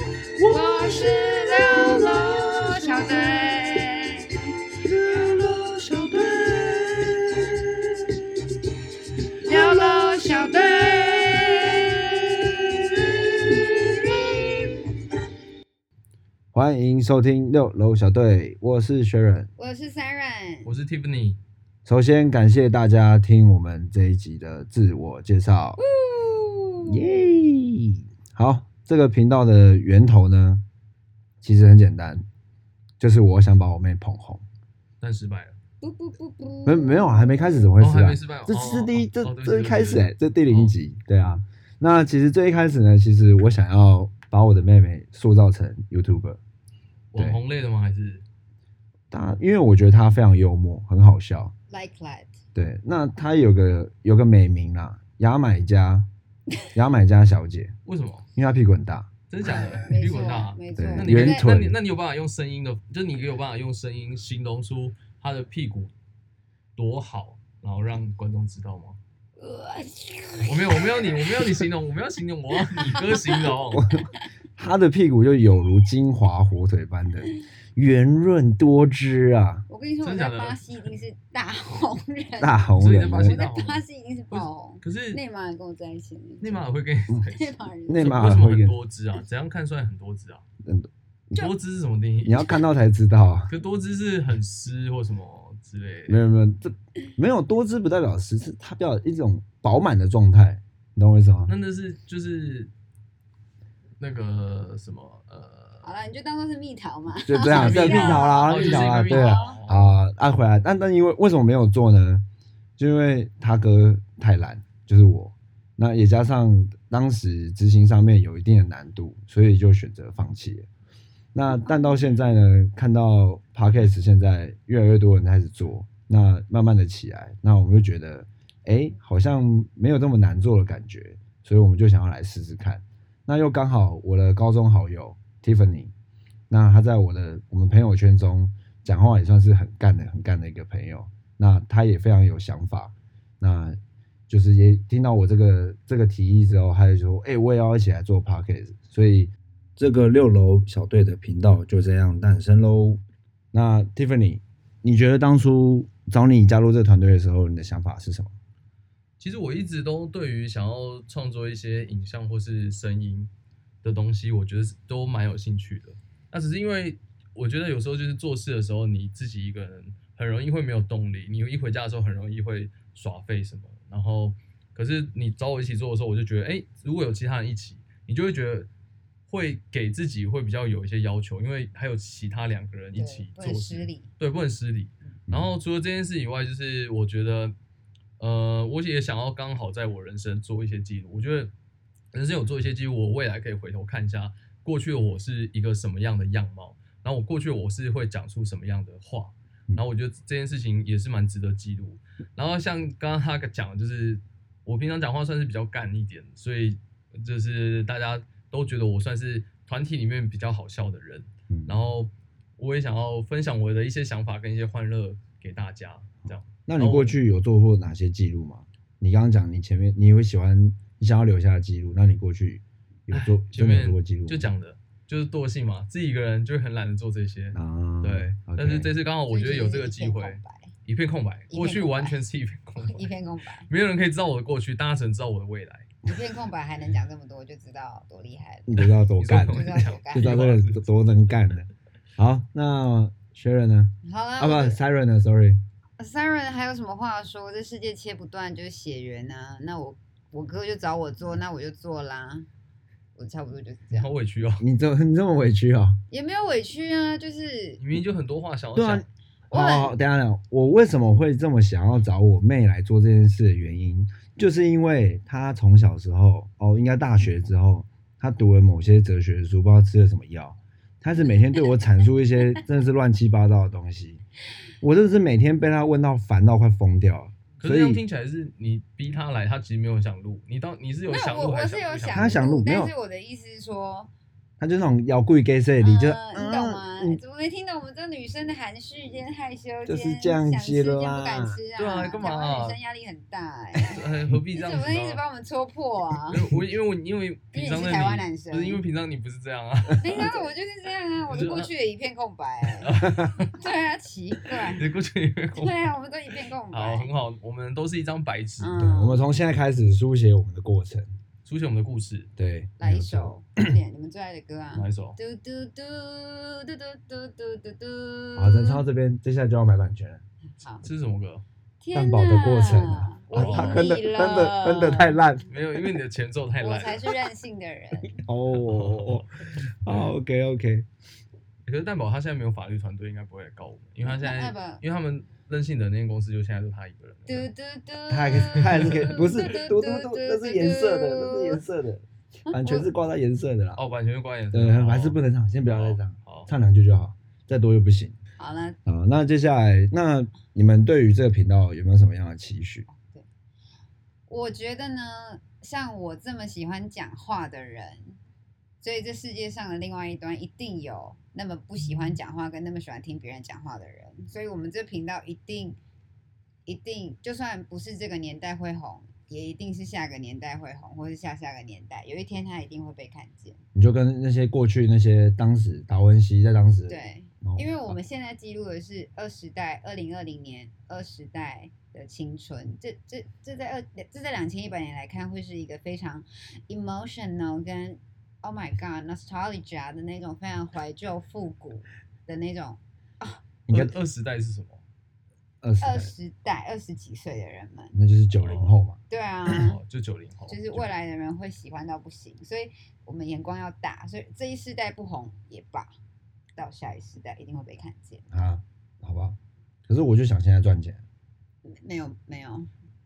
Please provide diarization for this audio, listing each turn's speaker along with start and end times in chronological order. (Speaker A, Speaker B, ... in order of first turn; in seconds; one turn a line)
Speaker A: 0.4-3.5
Speaker B: 0.5-4.4
Speaker A: 4.8-8.2
Speaker B: 9.4-12.4
Speaker A: 9.4-11.1
Speaker A: 12.9-14.7
Speaker B: 13.0-14.3
Speaker A: 16.5-19.5
Speaker B: 19.6-20.7
Speaker C: 20.6-21.4
Speaker A: 21.9-25.8
Speaker B: 25.8-27.3
Speaker A: 26.9-30.6
Speaker A: 31.4-32.2
Speaker A: 33.0-34.4
Speaker C: 35.0-35.6
Speaker B: 35.8-37.7
Speaker A: 36.7-46.4
Speaker C: 37.8-40.8
Speaker C: 47.1-48.2
Speaker A: 47.1-47.4
Speaker A: 49.1-51.5
Speaker B: 51.7-52.3
Speaker A: 52.5-56.1
Speaker A: 56.7-57.8
Speaker C: 57.9-58.3
Speaker A: 58.4-59.1
Speaker C: 59.3-65.9
Speaker B: 59.5-61.5
Speaker A: 60.8-61.8
Speaker C: 66.8-69.0
Speaker B: 69.4-71.7
Speaker C: 70.5-74.0
Speaker B: 72.6-73.5
Speaker A: 73.8-74.0
Speaker A: 74.6-79.7
Speaker B: 79.7-82.7
Speaker C: 80.0-80.6
Speaker A: 82.4-83.4
Speaker C: 82.8-85.2
Speaker B: 83.2-86.7
Speaker C: 86.4-90.4
Speaker B: 87.3-88.2
Speaker A: 87.9-88.8
Speaker A: 90.7-91.5
Speaker C: 91.4-92.5
Speaker A: 92.2-93.5
Speaker C: 93.5-96.2
Speaker A: 96.1-101.5
Speaker C: 101.5-102.7
Speaker C: 104.0-105.9
Speaker B: 105.8-109.6
Speaker A: 107.3-112.2
Speaker C: 107.5-110.0
Speaker A: 112.8-120.7
Speaker A: 121.3-135.9
Speaker B: 121.6-122.1
Speaker A: 136.5-143.8
Speaker A: 144.3-153.0
Speaker A: 153.5-158.3
Speaker C: 159.2-163.3
Speaker C: 163.8-178.7
Speaker C: 179.3-187.6
Speaker B: 182.9-184.1
Speaker C: 188.2-191.5
Speaker C: 192.1-217.2
Speaker A: 211.5-211.8
Speaker A: 216.7-224.5
Speaker C: 223.1-233.1
Speaker A: 227.5-228.9
Speaker B: 229.3-230.7
Speaker B: 231.5-232.2
Speaker B: 232.8-233.7
Speaker C: 233.7-236.1
Speaker B: 236.0-240.4
Speaker A: 238.7-245.6
Speaker C: 238.8-240.9
Speaker B: 244.0-244.8
Speaker B: 246.0-252.5
Speaker B: 253.2-254.1
Speaker C: 253.9-254.7
Speaker A: 254.6-256.0
Speaker B: 256.1-257.8
Speaker C: 257.8-259.1
Speaker A: 258.7-274.2
Speaker B: 259.5-259.9
Speaker A: 274.8-278.0
Speaker C: 277.6-282.3
Speaker B: 281.1-284.1
Speaker A: 282.1-282.9
Speaker A: 284.6-287.2
Speaker B: 285.8-296.5
Speaker A: 289.9-291.6
Speaker C: 291.8-292.8
Speaker C: 293.8-295.2
Speaker C: 296.3-300.4
Speaker B: 297.5-298.8
Speaker B: 300.0-303.0
Speaker C: 301.3-301.7
Speaker C: 302.8-303.6
Speaker B: 303.5-304.9
Speaker C: 304.5-305.8
Speaker B: 305.6-307.1
Speaker C: 306.7-308.8
Speaker B: 308.6-309.2
Speaker A: 308.8-311.1
Speaker C: 311.4-312.3
Speaker A: 312.4-313.5
Speaker B: 312.8-318.8
Speaker C: 314.8-315.2
Speaker A: 318.4-320.2
Speaker B: 320.6-320.9
Speaker C: 320.8-321.4
Speaker B: 321.8-325.2
Speaker A: 321.9-325.5
Speaker C: 323.3-323.9
Speaker C: 325.5-327.2
Speaker B: 326.6-328.2
Speaker A: 328.1-330.9
Speaker C: 328.5-329.3
Speaker C: 329.9-330.1
Speaker C: 331.7-337.5
Speaker B: 334.0-334.8
Speaker B: 337.3-341.6
Speaker A: 338.1-343.8
Speaker C: 338.7-339.1
Speaker B: 342.5-342.9
Speaker C: 343.8-346.5
Speaker A: 344.5-348.2
Speaker B: 348.4-348.8
Speaker A: 348.9-352.9
Speaker B: 352.9-353.3
Speaker B: 354.3-358.2
Speaker B: 358.8-365.8
Speaker B: 366.7-373.6
Speaker A: 373.8-378.0
Speaker B: 376.9-393.4
Speaker A: 393.7-393.9
Speaker C: 393.7-394.8
Speaker A: 395.6-396.1
Speaker B: 395.8-397.9
Speaker A: 397.9-399.0
Speaker C: 398.3-398.7
Speaker B: 399.1-399.8
Speaker C: 399.5-400.9
Speaker B: 400.5-405.9
Speaker B: 406.6-408.2
Speaker A: 408.3-409.4
Speaker A: 409.9-411.0
Speaker B: 411.7-412.7